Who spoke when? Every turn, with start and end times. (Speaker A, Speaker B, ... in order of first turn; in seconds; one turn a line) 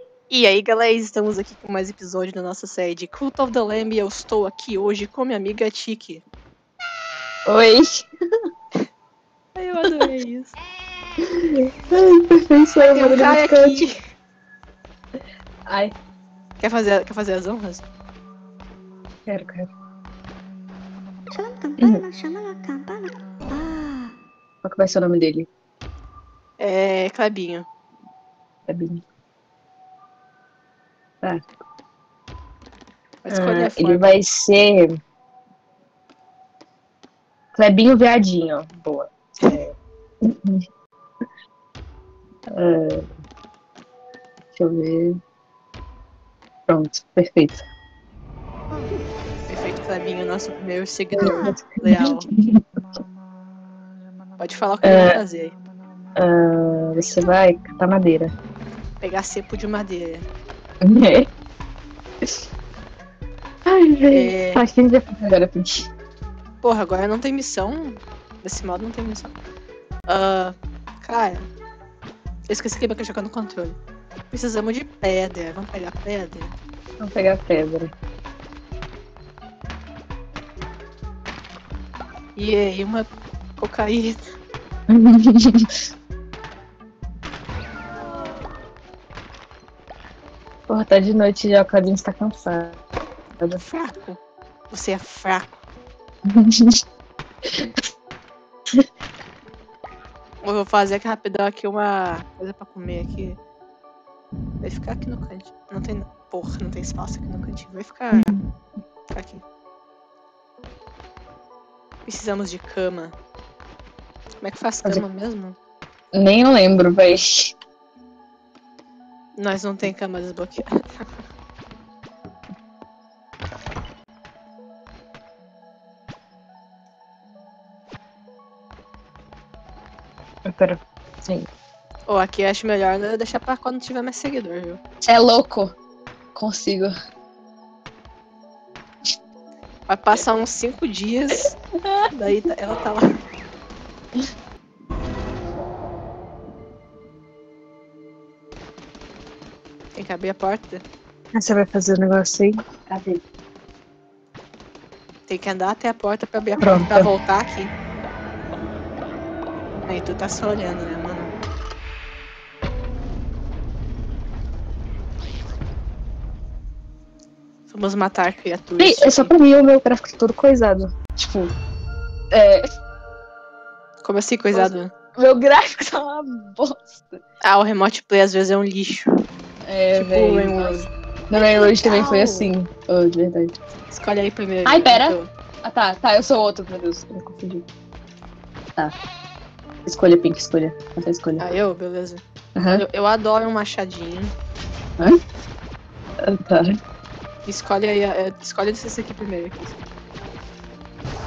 Speaker A: 0.3-6.2
Speaker B: 7.5-8.1
Speaker A: 9.5-10.5
Speaker B: 11.2-13.8
Speaker A: 12.8-14.0
Speaker B: 15.7-15.9
Speaker A: 16.6-17.8
Speaker B: 19.2-19.7
Speaker C: 21.3-24.1
Speaker B: 24.6-25.5
Speaker A: 26.6-27.7
Speaker B: 28.7-29.0
Speaker B: 31.2-31.5
Speaker A: 33.2-34.2
Speaker B: 33.3-35.0
Speaker B: 37.5-39.1
Speaker A: 39.4-39.7
Speaker B: 40.2-40.7
Speaker B: 42.5-43.1
Speaker B: 44.5-45.2
Speaker B: 46.7-47.6
Speaker C: 48.7-49.0
Speaker A: 49.5-52.3
Speaker B: 51.2-52.6
Speaker A: 54.4-55.5
Speaker B: 54.8-55.2
Speaker B: 56.2-58.3
Speaker A: 59.0-60.2
Speaker B: 60.8-61.3
Speaker B: 63.6-65.9
Speaker A: 64.1-64.6
Speaker A: 66.6-69.3
Speaker A: 70.1-71.5
Speaker A: 72.5-73.8
Speaker A: 74.3-76.5
Speaker B: 77.0-77.9
Speaker A: 82.4-84.2
Speaker B: 84.9-85.8
Speaker B: 90.7-92.8
Speaker A: 93.6-94.2
Speaker A: 94.7-95.5
Speaker B: 96.2-96.8
Speaker B: 97.4-97.8
Speaker A: 100.4-103.4
Speaker A: 104.6-108.3
Speaker B: 108.1-108.5
Speaker A: 109.1-109.4
Speaker A: 112.0-113.1
Speaker A: 114.4-115.5
Speaker B: 116.1-117.5
Speaker A: 119.4-121.0
Speaker B: 130.4-131.5
Speaker A: 132.1-134.8
Speaker B: 135.0-135.8
Speaker B: 136.3-136.9
Speaker A: 139.9-141.6
Speaker B: 141.8-142.1
Speaker A: 142.1-143.1
Speaker A: 149.9-150.8
Speaker B: 151.3-153.2
Speaker A: 155.3-157.7
Speaker B: 156.6-157.1
Speaker A: 159.8-161.3
Speaker A: 167.7-169.3
Speaker B: 168.8-171.5
Speaker B: 172.3-172.7
Speaker A: 174.0-174.9
Speaker B: 174.5-177.2
Speaker A: 177.4-179.2
Speaker B: 179.6-183.6
Speaker A: 179.9-182.5
Speaker A: 183.9-185.3
Speaker B: 184.7-187.7
Speaker B: 189.8-191.4
Speaker A: 191.4-194.3
Speaker B: 192.6-192.8
Speaker B: 196.2-196.8
Speaker A: 197.5-199.8